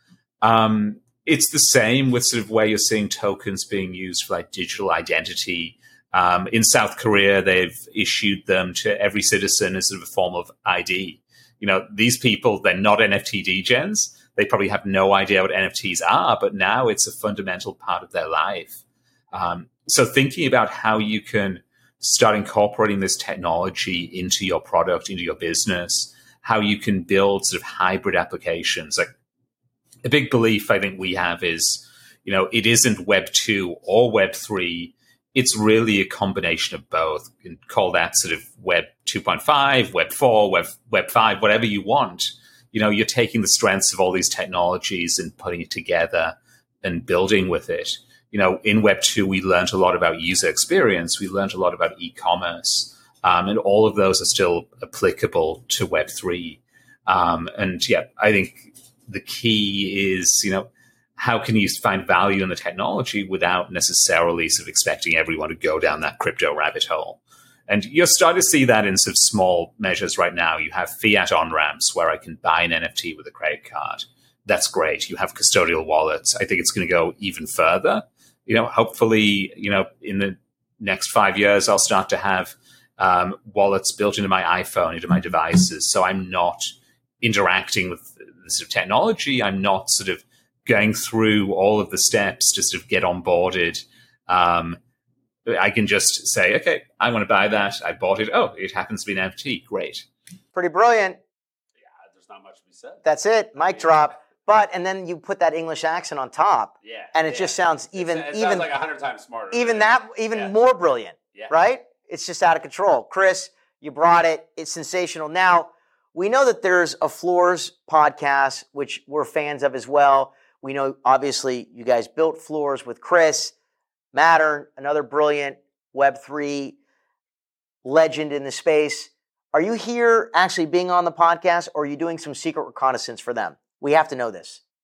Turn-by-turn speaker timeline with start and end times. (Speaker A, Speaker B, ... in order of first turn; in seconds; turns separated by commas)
Speaker A: 0.4-18.8, Speaker A: 19.3-29.1, Speaker A: 30.0-94.8, Speaker A: 95.5-100.0, Speaker B: 100.5-101.2, Speaker C: 101.8-103.0, Speaker B: 103.0-108.7, Speaker C: 103.6-103.9, Speaker C: 106.8-110.5, Speaker B: 109.5-123.5, Speaker B: 124.1-126.8, Speaker B: 127.8-134.6